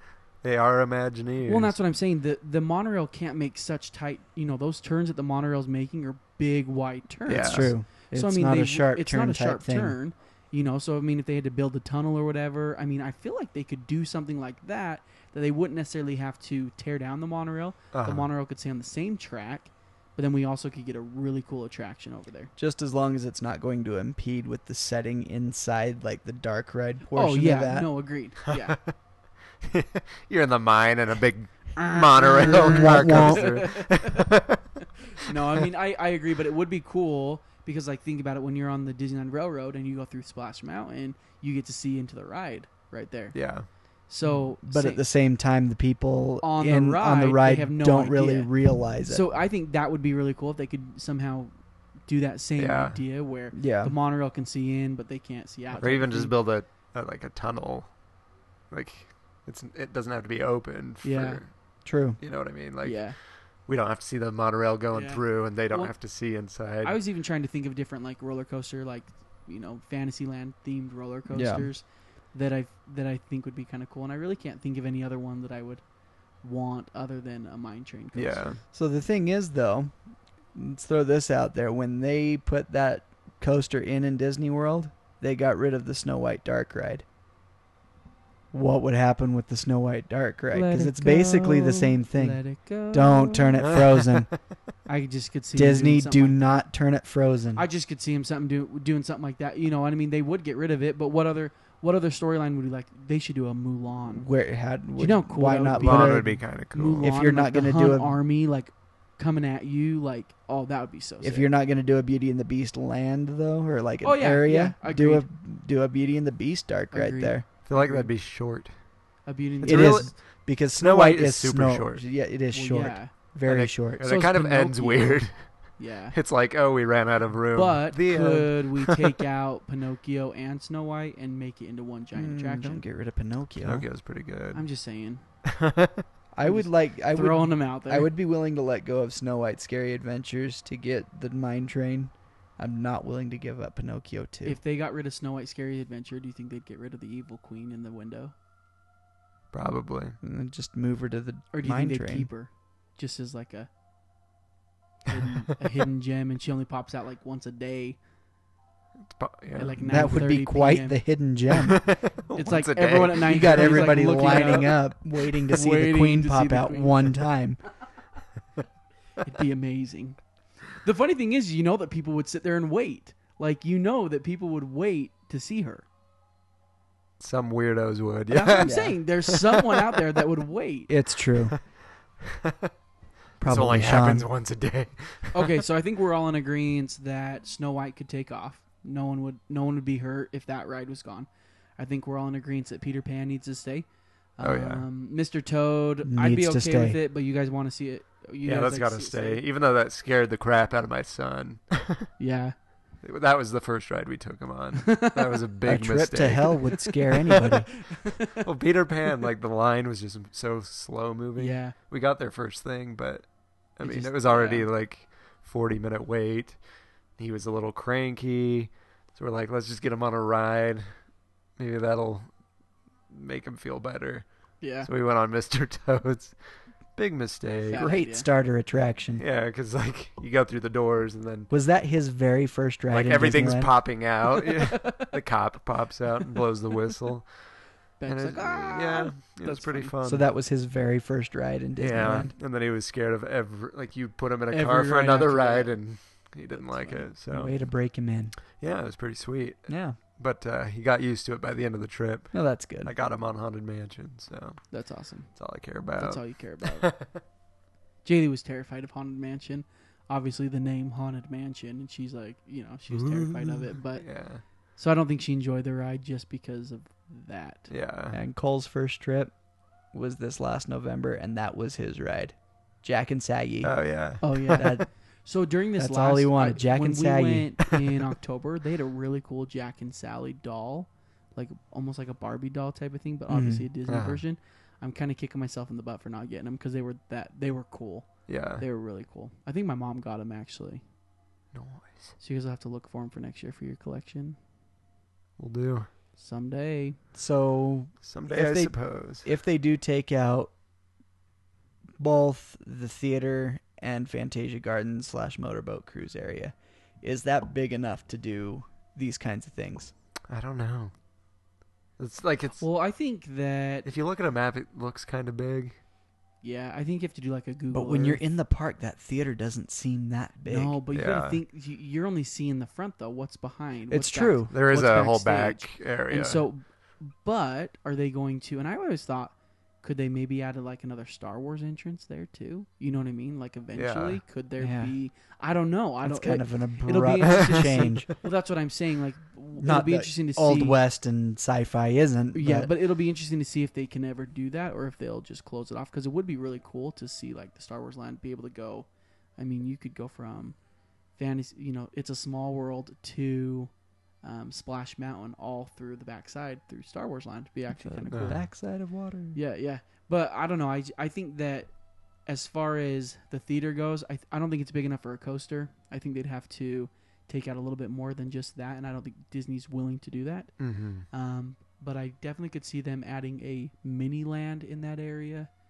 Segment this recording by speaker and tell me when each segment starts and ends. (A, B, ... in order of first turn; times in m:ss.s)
0:00.4-0:01.8 A
0:01.4-0:22.5 B
0:07.2-0:07.7 A
0:07.4-0:10.0 C
0:17.9-0:18.3 A
0:22.6-0:27.9 C
0:27.1-0:28.8 B
0:28.5-0:28.9 A
0:29.6-0:34.8 A
0:32.2-0:34.2 B
0:32.3-0:33.8 C
0:35.2-0:45.0 B
0:43.3-0:43.7 A
0:44.2-0:49.2 C
0:46.4-0:51.5 B
0:52.1-0:56.4 B
0:52.6-0:53.0 A
0:53.5-0:53.9 C
0:55.8-0:58.0 A
0:58.7-1:07.0 A
1:01.0-1:01.4 B
1:01.8-1:02.2 C
1:02.8-1:03.2 B
1:04.9-1:06.0 B
1:06.8-1:15.8 B
1:11.3-1:11.7 C
1:16.4-1:18.6 B
1:18.1-1:18.6 A
1:18.6-1:20.0 C
1:20.5-1:27.0 C
1:28.5-1:34.3 C
1:30.5-1:33.6 B
1:33.6-1:34.2 A
1:34.8-1:36.4 B
1:35.5-1:37.6 C
1:37.5-1:44.3 B
1:44.0-1:48.2 C
1:44.9-1:51.5 B
1:45.8-1:47.1 A
1:51.2-1:57.5 C
1:54.0-1:55.3 B
1:56.9-1:58.1 B
1:57.6-1:58.9 A
1:59.2-2:00.1 B
1:59.6-2:02.0 A
1:59.6-2:04.1 C
2:02.5-2:03.1 B
2:03.4-2:09.1 A
2:04.0-2:05.2 B
2:05.8-2:06.2 B
2:07.5-2:12.8 B
2:12.1-2:13.9 C
2:13.6-2:14.6 A
2:14.5-2:15.2 B
2:15.5-2:16.0 A
2:16.3-2:24.6 C
2:16.4-2:18.1 B
2:24.4-2:28.3 B
2:29.5-2:30.2 A
2:30.2-2:32.3 C
2:31.5-2:33.7 B
2:35.1-2:38.0 B
2:39.1-2:40.1 A
2:39.6-2:41.0 B
2:39.8-2:41.9 C
2:41.6-2:44.7 A
2:42.4-2:45.0 B
2:43.2-2:47.6 C
2:45.5-2:47.0 B
2:49.2-2:50.3 B
2:50.8-2:55.8 B
2:57.2-2:59.8 A
2:58.3-3:00.9 B
2:58.6-2:59.0 C
3:00.9-3:01.6 C
3:03.4-3:04.3 C
3:03.4-3:05.6 A
3:05.3-3:19.4 B
3:14.4-3:14.8 A
3:16.0-3:17.0 C
3:18.4-3:22.1 A
3:22.2-3:22.6 B
3:23.0-3:26.6 A
3:25.6-3:27.9 C
3:28.4-3:36.6 A
3:31.4-3:31.7 B
3:33.8-3:34.7 B
3:37.2-3:40.9 A
3:41.6-3:42.3 A
3:43.1-3:46.4 A
3:44.6-3:44.9 B
3:46.9-3:47.9 A
3:47.6-3:48.3 B
3:47.7-3:49.2 C
3:49.2-3:51.5 A
3:51.5-3:54.0 C
3:52.9-4:00.3 A
3:54.3-3:55.1 B
3:58.0-3:59.9 B
4:00.0-4:02.3 C
4:01.8-4:07.5 A
4:04.5-4:05.8 B
4:06.5-4:07.1 B
4:07.3-4:08.4 C
4:08.6-4:17.2 A
4:09.7-4:10.0 C
4:12.3-4:12.9 C
4:14.7-4:17.2 B
4:18.0-4:24.2 B
4:22.9-4:24.4 A
4:24.7-4:27.7 B
4:27.7-4:28.2 A
4:28.1-4:29.3 C
4:29.9-4:34.9 C
4:33.6-4:34.7 A
4:34.2-4:50.8 B
4:35.8-4:37.7 C
4:43.3-4:43.6 C
4:43.9-4:44.2 A
4:48.3-4:48.6 A
4:51.5-4:52.1 A
4:52.2-4:54.4 B
4:55.4-4:55.9 A
4:56.2-4:57.0 B
4:57.1-5:00.5 C
4:58.0-4:59.3 A
5:02.0-5:09.9 C
5:10.3-5:10.9 A
5:12.0-5:12.6 A
5:12.6-5:13.9 B
5:13.8-5:15.8 A
5:16.4-5:18.2 B
5:17.7-5:20.8 C
5:20.5-5:40.8 B
5:20.9-5:21.4 A
5:23.9-5:24.5 C
5:24.5-5:26.5 A
5:33.7-5:34.2 A
5:34.6-5:34.9 C
5:36.0-5:38.1 C
5:39.6-5:42.7 C
5:42.3-5:58.5 B
5:57.7-5:59.4 C
5:58.1-5:58.4 A
5:59.3-6:01.7 B
6:02.2-6:15.5 B
6:10.6-6:11.1 A